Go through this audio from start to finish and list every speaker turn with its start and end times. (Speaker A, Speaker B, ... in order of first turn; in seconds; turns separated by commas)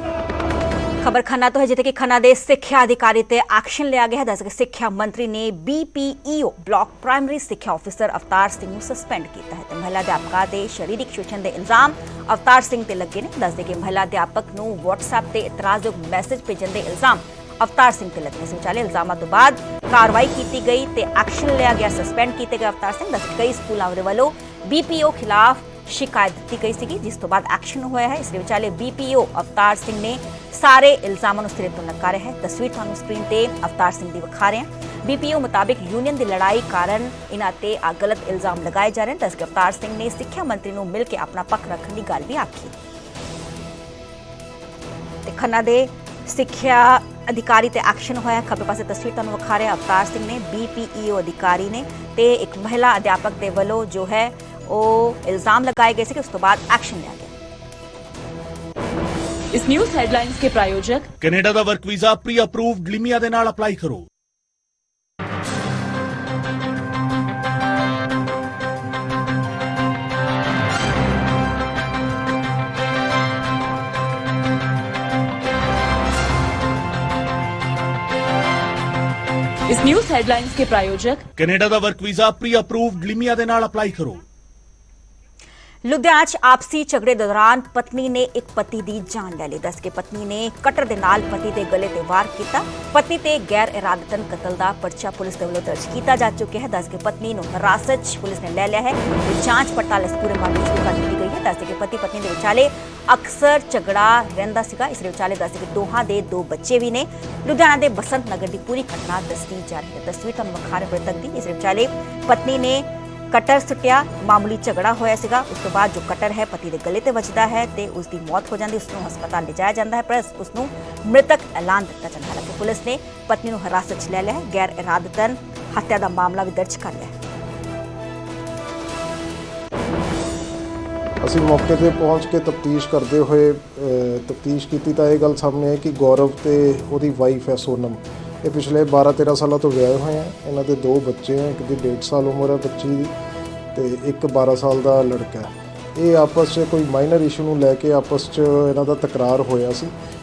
Speaker A: 1.0-42.7, Speaker A: 45.2-57.3, Speaker B: 59.5-61.1, Speaker C: 61.2-64.1, Speaker B: 79.7-81.2, Speaker C: 81.4-84.2, Speaker A: 85.8-127.1, Speaker D: 131.2-143.1, Speaker D: 143.7-149.9